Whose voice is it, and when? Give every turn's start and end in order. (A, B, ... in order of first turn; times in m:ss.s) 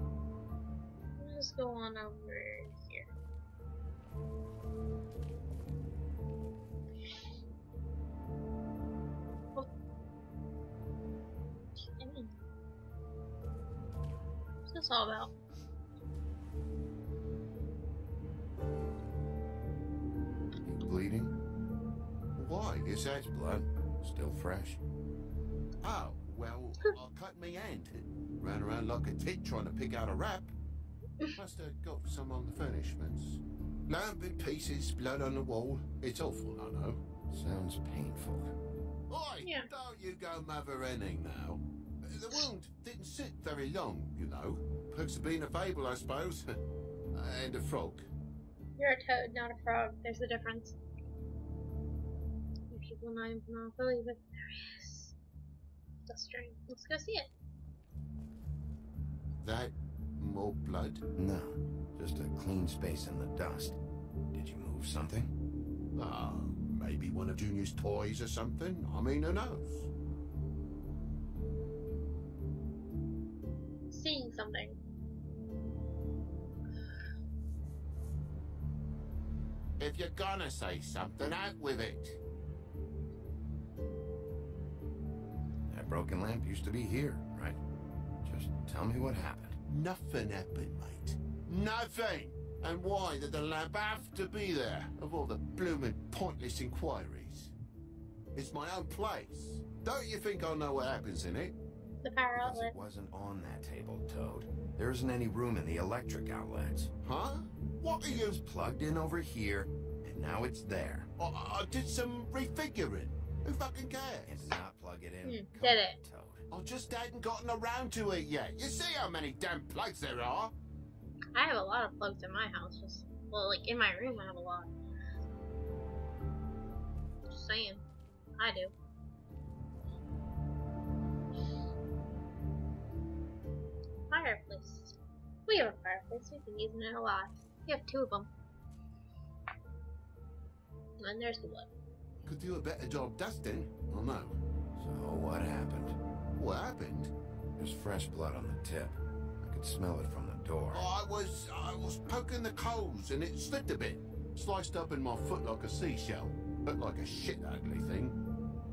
0:01.2-0:03.1 A
0:11.8-0:12.3 A
0:14.7-0:15.3 A
0:20.7-0:21.3 B
0:22.4-0:23.2 C
0:23.2-0:24.8 B
0:25.8-0:30.5 C
0:31.4-0:37.0 C
0:37.3-0:38.5 B
0:39.1-0:46.5 C
0:39.4-0:39.7 A
0:47.1-0:48.1 C
0:48.8-0:50.8 A
0:52.7-0:55.1 A
0:56.1-0:57.3 A
0:59.4-1:01.0 C
1:01.2-1:03.8 B
1:04.3-1:05.3 B
1:06.0-1:09.9 C
1:13.9-1:14.8 A
1:19.8-1:22.2 C
1:25.7-1:27.6 B
1:28.2-1:29.6 B
1:29.7-1:37.5 C
1:38.3-1:41.5 C
1:42.0-1:42.7 A
1:42.3-1:46.9 B
1:47.0-1:48.4 C
1:48.1-1:51.1 B
1:51.2-1:54.5 C
1:54.2-1:56.4 B
1:55.2-1:56.0 A
1:56.5-2:00.5 C
2:01.3-2:04.7 A
2:07.3-2:07.8 A
2:08.4-2:08.7 A
2:14.1-2:18.3 A
2:21.0-2:21.7 A
2:22.2-2:24.4 C
2:24.8-2:26.0 B
2:26.4-2:27.1 C
2:27.6-2:30.9 B
2:30.7-2:38.2 C